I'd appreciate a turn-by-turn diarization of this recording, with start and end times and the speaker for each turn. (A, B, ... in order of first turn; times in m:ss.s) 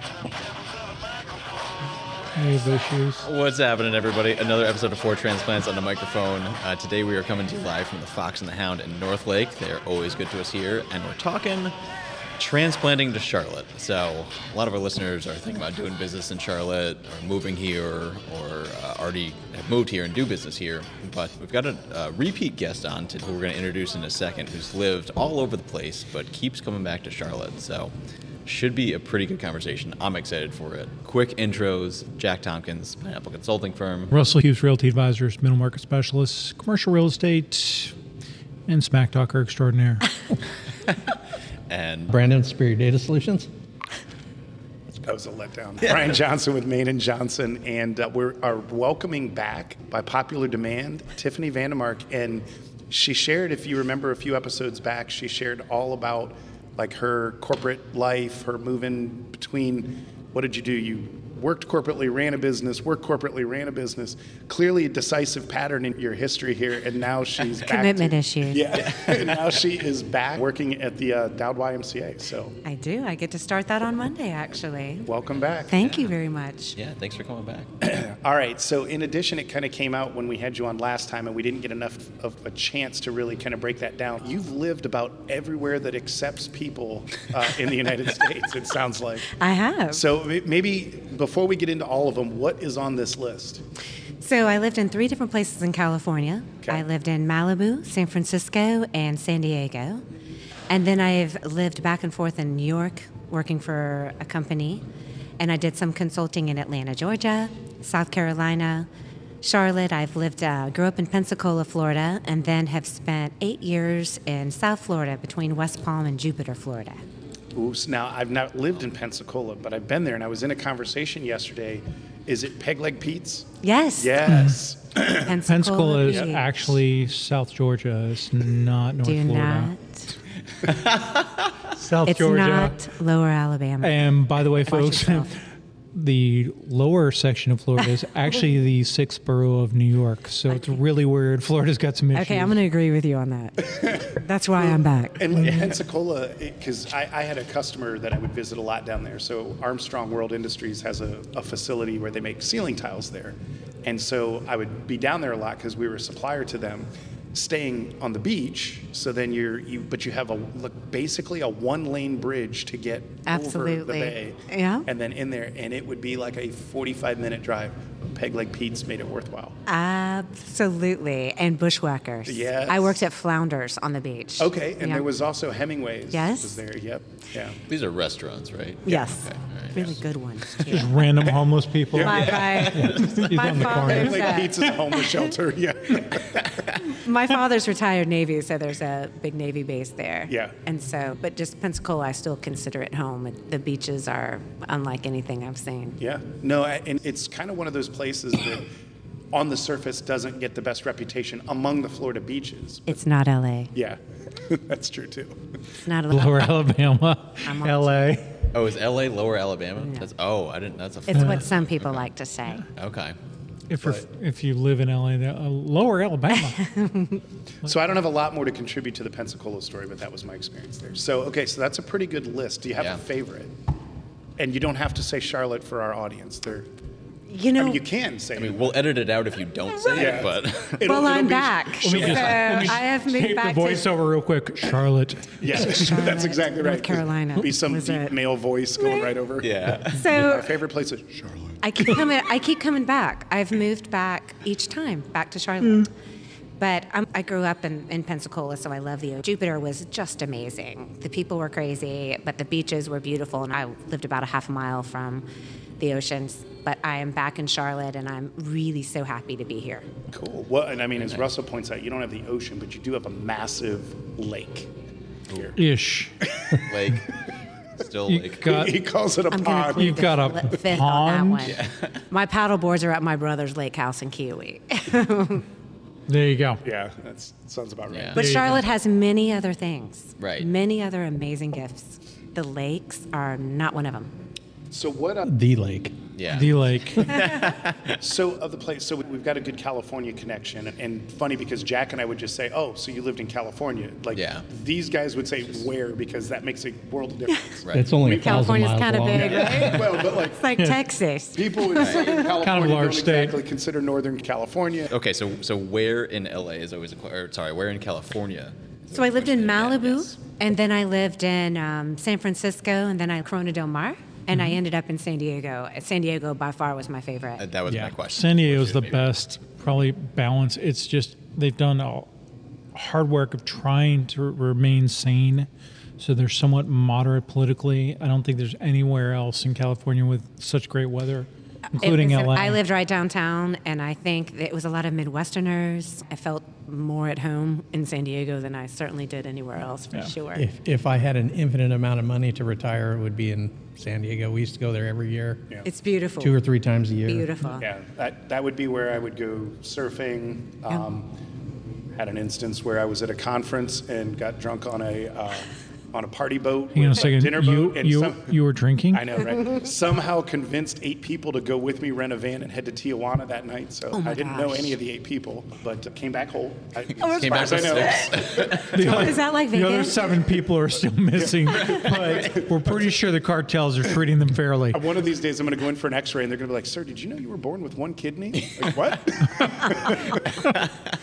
0:02.3-0:03.3 A
0:03.2-0:11.7 B
0:12.4-0:27.9 B
0:28.4-0:34.1 B
0:34.1-0:37.9 A
0:38.7-0:40.2 A
0:41.7-0:42.1 B
0:42.1-0:43.5 C
0:45.0-1:12.6 D
1:07.6-1:08.8 E
1:08.8-1:09.4 B
1:12.6-1:15.1 E
1:15.0-1:15.8 D
1:15.7-1:16.8 E
1:15.7-1:16.1 B
1:16.8-1:17.7 B
1:17.8-1:29.3 D
1:29.3-1:30.0 E
1:29.9-1:33.6 D
1:34.2-1:40.0 E
1:40.7-1:44.8 E
1:45.4-1:48.9 E
1:49.4-1:57.0 E
1:57.5-2:05.4 D
2:03.6-2:04.4 E
2:04.2-2:04.6 A
2:05.0-2:06.8 E
2:05.4-2:09.7 A
2:09.0-2:10.2 E
2:10.6-2:11.4 B
2:11.7-2:12.8 A
2:12.0-2:15.3 E
2:13.8-2:15.3 A
2:15.9-2:22.5 A
2:20.5-2:20.8 E
2:22.1-2:25.2 E
2:23.6-2:49.6 D
2:25.4-2:25.7 A
2:43.3-2:44.9 E
2:49.7-2:55.1 E
2:52.2-2:53.0 D
2:54.4-2:57.6 D
2:56.1-2:56.6 E
2:57.6-3:00.0 B
2:58.8-3:01.1 E
3:00.6-3:04.7 A
3:01.2-3:02.8 D
3:02.0-3:05.0 E
3:02.4-3:03.2 B
3:03.5-3:06.5 D
3:06.1-3:06.8 B
3:06.8-3:16.0 E
3:10.3-3:10.5 D
3:16.0-3:18.7 D
3:19.3-3:23.0 D
3:22.9-3:23.7 E
3:23.7-3:25.4 D
3:25.8-3:26.6 E
3:26.1-3:28.4 A
3:27.4-3:28.2 E
3:28.5-3:32.1 B
3:29.8-3:30.1 E
3:31.1-3:32.6 E
3:32.7-3:33.2 B
3:33.7-3:36.6 A
3:36.3-3:37.2 E
3:37.6-3:43.5 D
3:44.4-3:46.7 D
3:47.3-3:47.8 E
3:47.5-3:48.7 D
3:48.4-3:51.0 B
3:49.9-3:52.8 D
3:50.8-3:53.9 E
3:51.8-3:56.0 A
3:55.4-4:01.6 D
3:55.5-3:58.1 E
3:59.4-4:00.1 B
3:59.9-4:00.5 E
4:01.6-4:05.9 E
4:06.6-4:15.2 E
4:15.8-4:19.9 E
4:20.1-4:24.7 D
4:25.6-4:26.1 A
4:26.2-4:26.7 D
4:26.6-4:27.1 B
4:27.8-4:28.5 B
4:28.1-4:28.8 A
4:28.4-4:30.0 D
4:29.3-4:35.4 E
4:29.7-4:31.5 A
4:31.5-4:32.0 B
4:36.1-4:36.6 A
4:36.6-4:38.5 D
4:37.9-4:38.2 B
4:38.1-4:44.1 E
4:38.2-4:38.6 A
4:40.2-4:40.5 B
4:44.7-4:45.3 D
4:45.2-4:46.0 C
4:46.2-4:48.0 B
4:46.3-4:47.3 A
4:48.0-4:58.5 D
4:54.1-4:54.4 B
4:57.6-4:57.9 B
4:57.7-4:59.8 C
4:58.0-5:02.3 E
4:59.1-5:00.5 D
5:00.5-5:00.8 A
5:01.4-5:04.8 D
5:01.7-5:02.3 B
5:02.4-5:03.4 A
5:04.8-5:10.2 B
5:08.9-5:17.5 E
5:14.3-5:14.6 A
5:17.4-5:19.1 B
5:17.7-5:17.9 C
5:18.1-5:22.1 A
5:22.7-5:32.6 A
5:31.7-5:40.4 E
5:40.3-5:45.5 C
5:45.6-5:46.4 E
5:46.2-5:47.3 C
5:47.0-5:47.7 E
5:47.6-5:51.1 D
5:52.0-5:58.3 D
5:56.7-5:59.1 A
5:58.9-6:08.8 D
6:03.9-6:04.8 E
6:07.0-6:10.2 E
6:07.0-6:08.9 B
6:08.6-6:14.9 A
6:11.1-6:12.5 D
6:14.7-6:20.6 D
6:20.1-6:20.9 B